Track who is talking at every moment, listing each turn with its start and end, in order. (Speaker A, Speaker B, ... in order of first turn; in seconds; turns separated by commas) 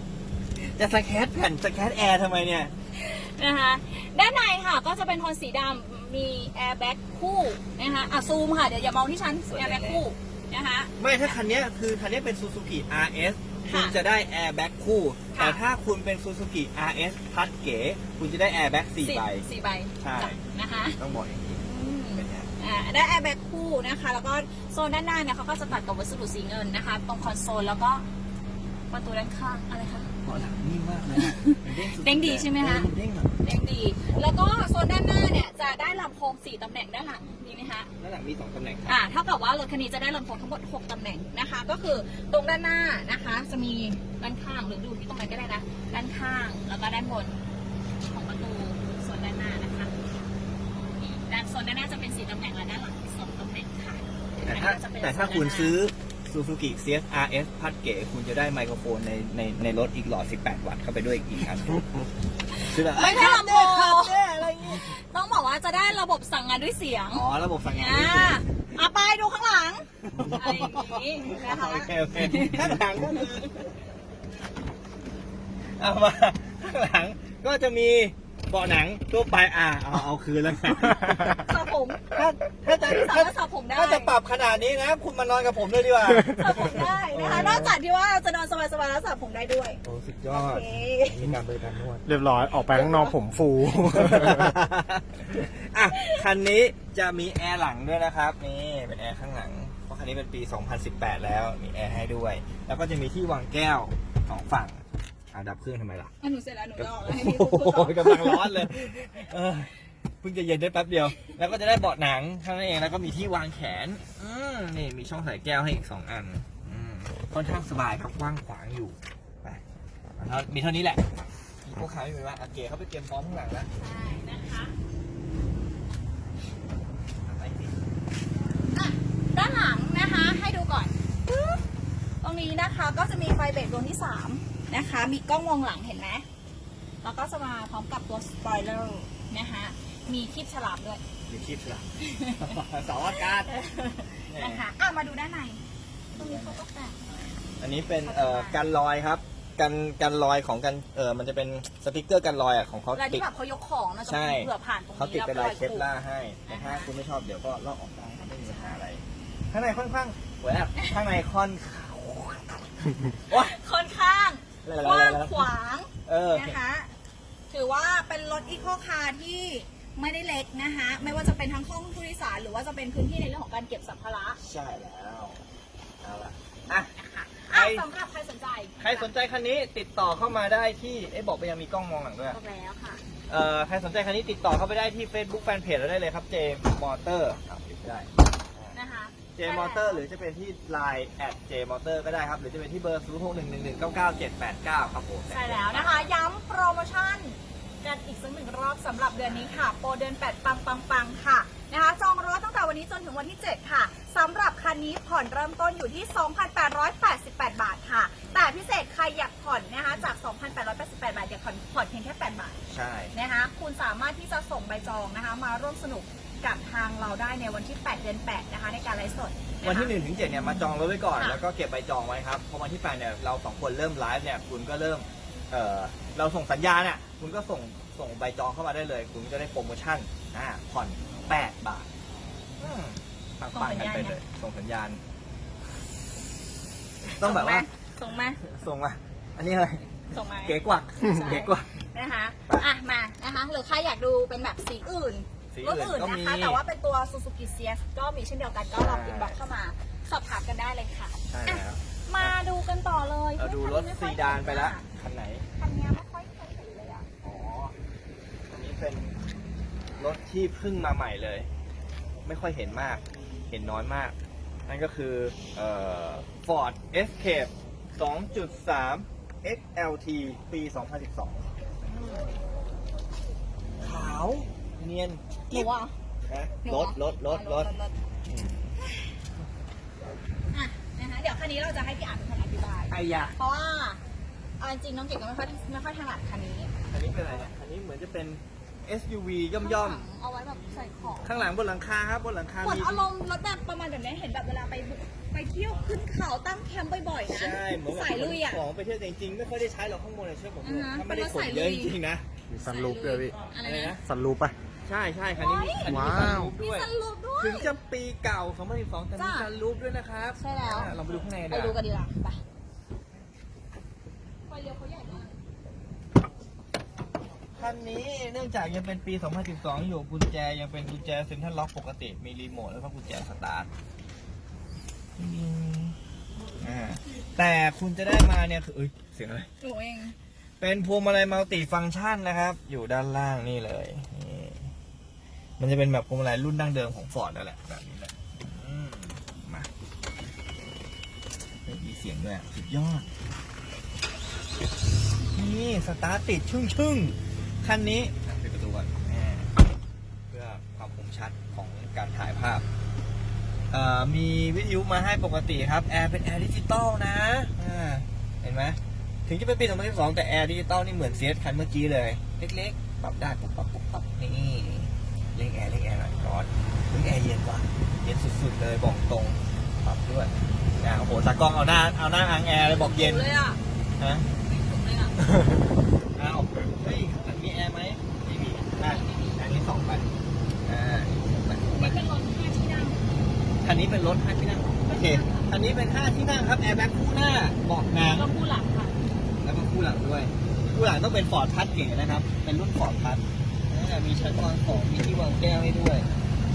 Speaker A: 0.6-2.8, Speaker B: 2.9-11.3, Speaker A: 9.5-10.0, Speaker A: 11.0-19.4, Speaker B: 13.6-14.0, Speaker B: 15.3-15.6, Speaker B: 19.0-21.0, Speaker A: 20.0-20.4, Speaker A: 21.0-22.5, Speaker B: 21.6-28.1, Speaker B: 28.9-30.1, Speaker A: 30.2-33.3, Speaker B: 31.1-32.9, Speaker B: 33.4-37.9, Speaker A: 38.0-39.0, Speaker B: 38.9-47.4, Speaker B: 48.1-50.1, Speaker B: 50.9-55.7, Speaker A: 54.4-62.0, Speaker B: 62.5-73.3, Speaker A: 62.6-65.0, Speaker A: 67.1-68.4, Speaker A: 70.1-73.7, Speaker A: 75.8-81.4, Speaker B: 80.7-82.0, Speaker A: 82.1-87.8, Speaker B: 82.7-84.1, Speaker B: 86.3-91.3, Speaker A: 89.8-92.0, Speaker C: 92.0-94.5, Speaker B: 92.5-93.2, Speaker A: 93.7-106.1, Speaker B: 95.9-96.2, Speaker B: 106.2-108.7, Speaker A: 106.8-119.6, Speaker A: 120.2-121.1, Speaker A: 121.6-123.7, Speaker B: 123.8-124.7, Speaker A: 127.2-127.8, Speaker B: 128.7-131.6, Speaker B: 132.2-136.2, Speaker B: 137.0-141.0, Speaker A: 141.3-143.5, Speaker B: 142.0-145.6, Speaker A: 144.3-144.7, Speaker A: 146.1-146.6, Speaker B: 146.1-147.0, Speaker A: 147.6-153.3, Speaker B: 147.9-148.6, Speaker B: 152.9-155.9, Speaker A: 154.1-163.5, Speaker B: 156.5-156.9, Speaker B: 158.2-158.8, Speaker B: 163.3-166.9, Speaker A: 164.6-165.5, Speaker A: 166.1-166.6, Speaker B: 167.5-174.4, Speaker A: 174.4-175.4, Speaker A: 176.0-176.9, Speaker B: 176.9-179.1, Speaker A: 177.5-177.8, Speaker A: 178.8-182.4, Speaker B: 182.3-183.0, Speaker A: 183.3-188.8, Speaker B: 188.7-190.0, Speaker A: 189.3-196.1, Speaker B: 195.3-212.6, Speaker A: 199.2-199.7, Speaker A: 212.7-213.1, Speaker B: 213.1-219.9, Speaker A: 219.6-231.9, Speaker B: 221.1-221.4, Speaker A: 232.6-235.0, Speaker B: 233.5-234.2, Speaker B: 237.1-238.4, Speaker A: 237.1-237.7, Speaker A: 238.4-239.9, Speaker B: 240.1-254.8, Speaker A: 240.4-241.7, Speaker A: 245.5-246.6, Speaker A: 248.7-249.4, Speaker A: 251.3-252.4, Speaker A: 253.3-255.4, Speaker B: 255.6-257.1, Speaker A: 257.2-257.7, Speaker A: 258.5-259.1, Speaker A: 260.0-261.5, Speaker A: 262.2-272.3, Speaker A: 273.8-275.7, Speaker B: 275.5-275.9, Speaker A: 276.3-277.7, Speaker B: 276.6-277.9, Speaker A: 278.2-278.7, Speaker B: 278.8-279.1, Speaker B: 280.5-284.0, Speaker A: 282.9-283.4, Speaker B: 284.6-286.7, Speaker A: 286.9-290.1, Speaker B: 289.6-291.5, Speaker A: 291.2-293.1, Speaker B: 292.6-298.6, Speaker A: 297.2-302.2, Speaker B: 300.6-302.0, Speaker C: 302.5-303.3, Speaker B: 302.6-304.0, Speaker A: 303.6-304.0, Speaker C: 304.0-304.5, Speaker A: 304.9-311.8, Speaker B: 305.3-307.8, Speaker C: 305.9-306.5, Speaker B: 309.1-309.5, Speaker B: 310.4-312.4, Speaker B: 314.5-315.4, Speaker A: 317.6-323.7, Speaker A: 325.1-326.0, Speaker A: 326.6-329.5, Speaker B: 329.6-330.1, Speaker A: 330.6-334.7, Speaker A: 335.6-339.7, Speaker A: 341.6-343.1, Speaker A: 345.3-349.5, Speaker A: 350.3-352.6, Speaker A: 353.7-373.3, Speaker B: 372.6-373.6, Speaker A: 374.0-374.3, Speaker B: 374.4-375.1, Speaker A: 375.2-375.5, Speaker A: 376.1-380.1, Speaker B: 378.7-379.4, Speaker A: 380.6-382.0, Speaker B: 381.7-383.0, Speaker A: 383.6-388.3, Speaker B: 384.9-385.5, Speaker B: 388.1-388.9, Speaker A: 389.4-396.1